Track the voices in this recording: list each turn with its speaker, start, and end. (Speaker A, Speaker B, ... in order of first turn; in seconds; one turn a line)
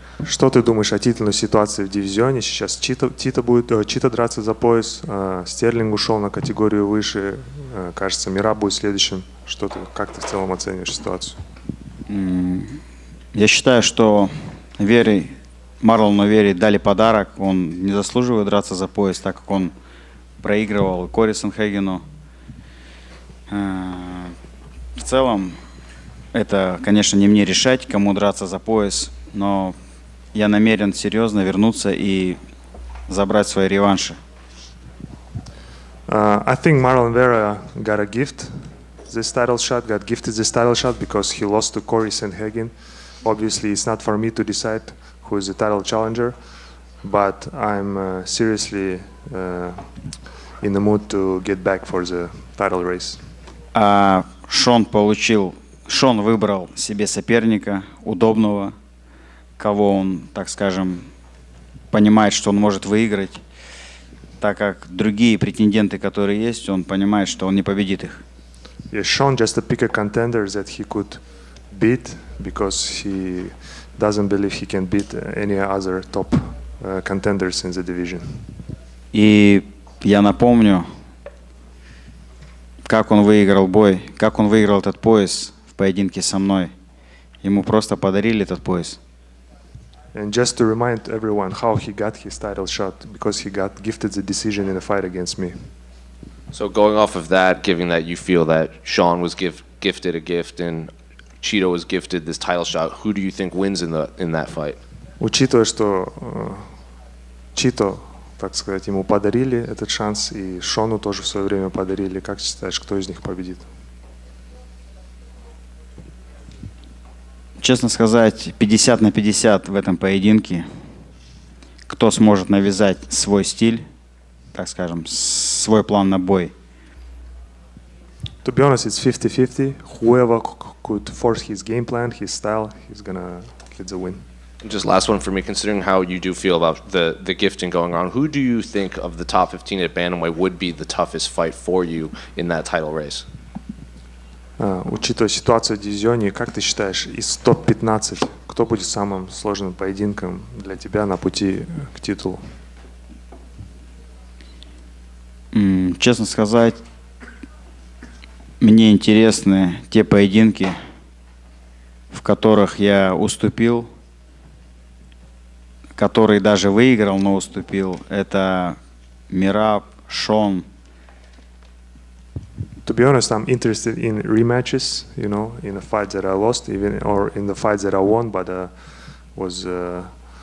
Speaker A: 0.2-11.4
Speaker B: 12.1-12.8
Speaker B: 13.3-19.7
Speaker B: 20.4-22.0
Speaker B: 23.5-24.3
Speaker B: 25.0-25.6
Speaker B: 26.3-29.7
Speaker B: 30.3-32.4
Speaker B: 33.1-34.2
Speaker A: 36.1-38.5
Speaker A: 39.1-46.4
Speaker A: 47.0-49.9
Speaker A: 50.6-53.2
Speaker B: 53.7-58.7
Speaker B: 59.6-61.1
Speaker B: 61.9-63.4
Speaker B: 64.4-68.2
Speaker A: 68.9-78.5
Speaker B: 79.1-80.8
Speaker B: 82.8-86.7
Speaker B: 87.4-89.0
Speaker A: 90.1-95.6
Speaker C: 96.5-104.8
Speaker A: 105.2-106.7
Speaker A: 107.5-113.7
Speaker B: 117.6-120.7
Speaker B: 121.9-123.8
Speaker B: 124.5-126.5
Speaker A: 128.4-134.2
Speaker C: 134.6-143.2
Speaker A: 144.6-152.4
Speaker B: 155.5-156.8
Speaker B: 158.6-160.8
Speaker B: 162.1-163.9
Speaker B: 165.9-168.8
Speaker B: 169.3-170.6
Speaker A: 172.8-180.2